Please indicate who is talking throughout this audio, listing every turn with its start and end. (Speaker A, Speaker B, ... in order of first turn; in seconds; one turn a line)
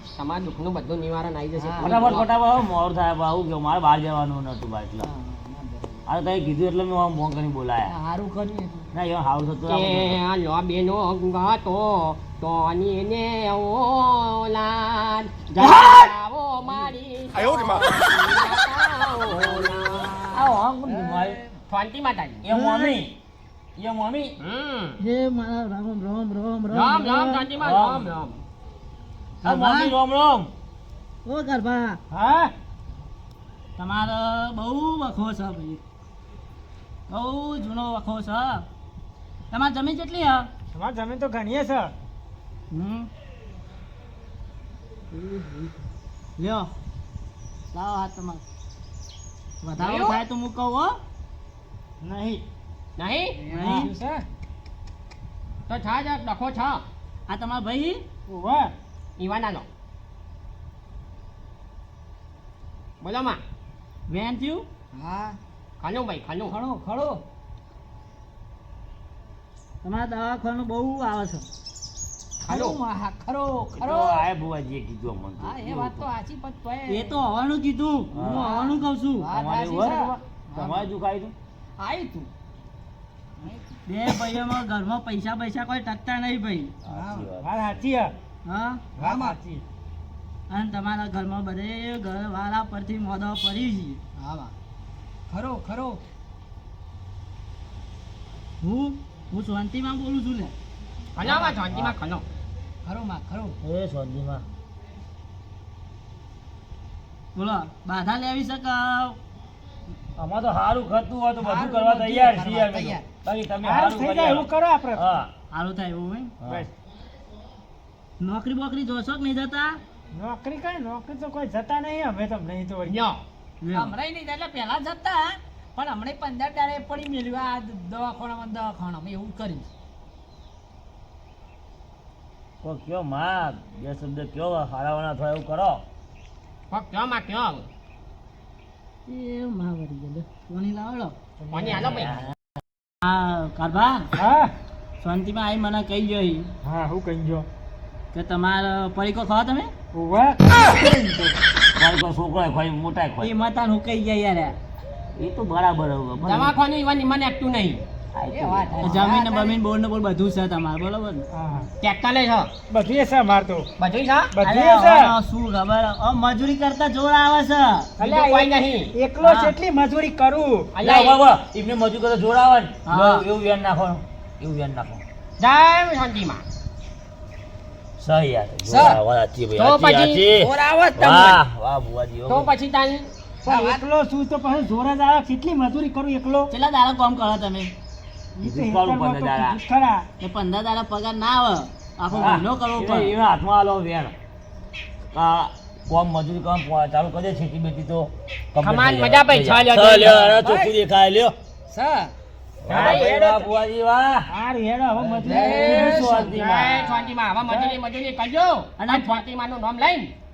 Speaker A: 0.1-2.3
Speaker B: 1.6-1.9
Speaker C: 1.8-5.1
Speaker B: 5.0-6.0
Speaker C: 6.0-7.9
Speaker B: 7.9-8.8
Speaker C: 8.9-10.2
Speaker A: 9.7-20.6
Speaker C: 15.5-16.1
Speaker C: 20.3-21.5
Speaker A: 21.7-22.5
Speaker C: 22.4-23.1
Speaker D: 22.5-23.0
Speaker C: 23.8-24.3
Speaker A: 24.4-25.0
Speaker D: 25.0-27.4
Speaker A: 26.7-28.4
Speaker C: 27.6-28.2
Speaker C: 29.4-30.5
Speaker D: 29.4-29.9
Speaker D: 31.2-32.0
Speaker E: 32.1-32.5
Speaker D: 33.8-35.8
Speaker D: 37.1-38.6
Speaker D: 39.5-40.5
Speaker E: 40.7-41.9
Speaker D: 42.7-43.1
Speaker D: 45.1-45.7
Speaker D: 46.4-46.7
Speaker D: 47.7-48.4
Speaker D: 49.6-51.0
Speaker A: 49.8-50.2
Speaker E: 52.0-52.4
Speaker A: 53.0-53.4
Speaker B: 53.4-54.2
Speaker D: 53.5-53.9
Speaker A: 55.7-56.8
Speaker D: 57.3-58.0
Speaker E: 58.3-58.7
Speaker A: 59.2-59.7
Speaker A: 63.0-63.4
Speaker D: 64.1-64.7
Speaker B: 64.9-65.4
Speaker A: 65.8-66.5
Speaker B: 66.4-67.2
Speaker D: 69.8-71.5
Speaker A: 72.4-72.8
Speaker B: 72.4-74.2
Speaker C: 73.8-76.1
Speaker B: 75.4-77.2
Speaker D: 76.9-79.3
Speaker C: 78.1-78.5
Speaker B: 78.2-80.9
Speaker C: 79.2-81.3
Speaker D: 79.8-80.2
Speaker B: 81.8-82.3
Speaker B: 83.4-83.8
Speaker D: 83.9-86.7
Speaker C: 86.8-87.8
Speaker B: 86.9-87.3
Speaker E: 87.4-88.1
Speaker D: 88.5-88.8
Speaker B: 89.0-89.3
Speaker E: 89.0-89.6
Speaker D: 90.5-94.0
Speaker B: 94.2-94.5
Speaker B: 95.3-96.0
Speaker D: 98.6-100.5
Speaker A: 101.2-102.2
Speaker C: 101.2-101.9
Speaker B: 102.8-103.6
Speaker C: 103.6-104.4
Speaker D: 107.3-109.2
Speaker C: 110.2-115.3
Speaker B: 111.4-113.0
Speaker E: 113.6-115.0
Speaker D: 115.5-116.3
Speaker C: 116.4-116.7
Speaker D: 118.2-119.8
Speaker E: 120.1-122.9
Speaker A: 122.8-123.2
Speaker D: 123.6-123.9
Speaker B: 123.7-129.7
Speaker C: 132.6-135.8
Speaker A: 136.7-137.7
Speaker D: 139.1-141.1
Speaker E: 141.4-142.0
Speaker A: 141.5-142.2
Speaker D: 143.0-144.1
Speaker E: 144.2-144.5
Speaker D: 145.0-146.5
Speaker E: 146.6-147.4
Speaker D: 148.1-149.7
Speaker E: 149.9-151.3
Speaker C: 151.8-153.3
Speaker D: 153.2-154.6
Speaker C: 155.2-156.6
Speaker A: 156.2-157.8
Speaker C: 158.1-159.1
Speaker B: 158.3-159.6
Speaker D: 158.8-161.2
Speaker E: 161.3-161.7
Speaker A: 161.8-162.5
Speaker E: 162.7-163.7
Speaker A: 163.8-164.3
Speaker E: 164.3-165.1
Speaker D: 164.4-167.9
Speaker A: 168.0-168.9
Speaker E: 168.0-170.7
Speaker D: 169.2-169.6
Speaker A: 170.7-171.2
Speaker C: 170.8-175.0
Speaker D: 172.8-173.3
Speaker A: 175.4-176.4
Speaker C: 178.0-182.5
Speaker B: 178.7-179.0
Speaker A: 179.6-180.2
Speaker B: 180.3-181.4
Speaker A: 182.3-183.1
Speaker B: 183.4-183.8
Speaker E: 183.5-186.5
Speaker D: 186.5-187.7
Speaker E: 188.4-190.1
Speaker C: 188.4-189.6
Speaker D: 190.2-193.1
Speaker C: 192.2-194.1
Speaker C: 195.1-201.3
Speaker A: 198.6-200.3
Speaker B: 200.2-200.7
Speaker B: 201.7-202.1
Speaker C: 202.6-204.3
Speaker A: 202.7-203.3
Speaker E: 204.3-206.1
Speaker C: 205.0-206.8
Speaker B: 205.2-206.4
Speaker A: 206.2-210.1
Speaker E: 207.5-207.7
Speaker D: 208.8-209.2